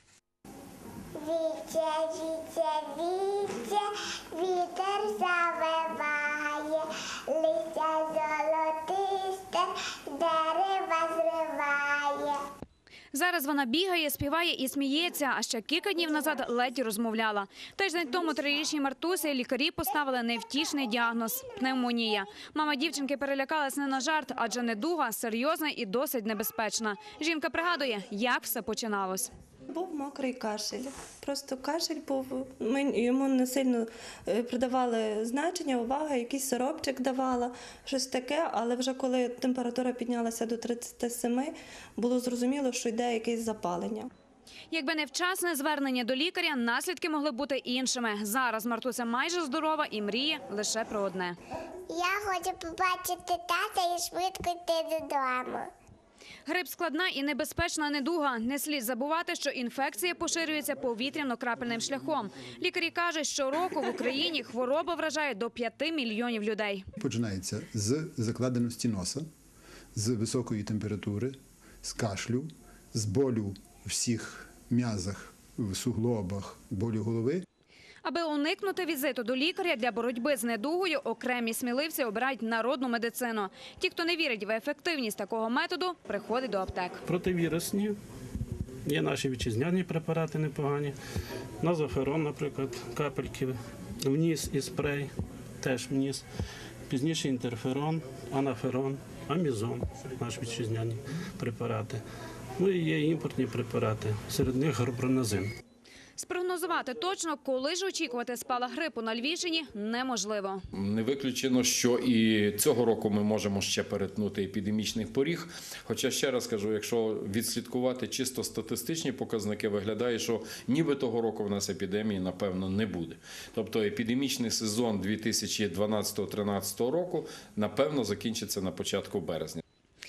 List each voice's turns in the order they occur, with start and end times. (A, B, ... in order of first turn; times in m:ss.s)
0:01.2-0:12.4 A
0:13.1-0:29.3 B
0:29.7-0:44.1 C
0:44.7-0:51.4 B
0:51.9-0:55.7 A
0:56.5-1:06.8 B
1:07.0-1:09.3 D
1:10.0-1:17.4 D
1:18.0-1:27.0 B
1:27.1-1:28.0 E
1:28.8-1:31.0 E
1:31.6-1:36.2 E
1:36.9-1:42.0 E
1:42.6-1:45.5 E
1:46.2-1:50.6 B
1:50.7-2:09.6 F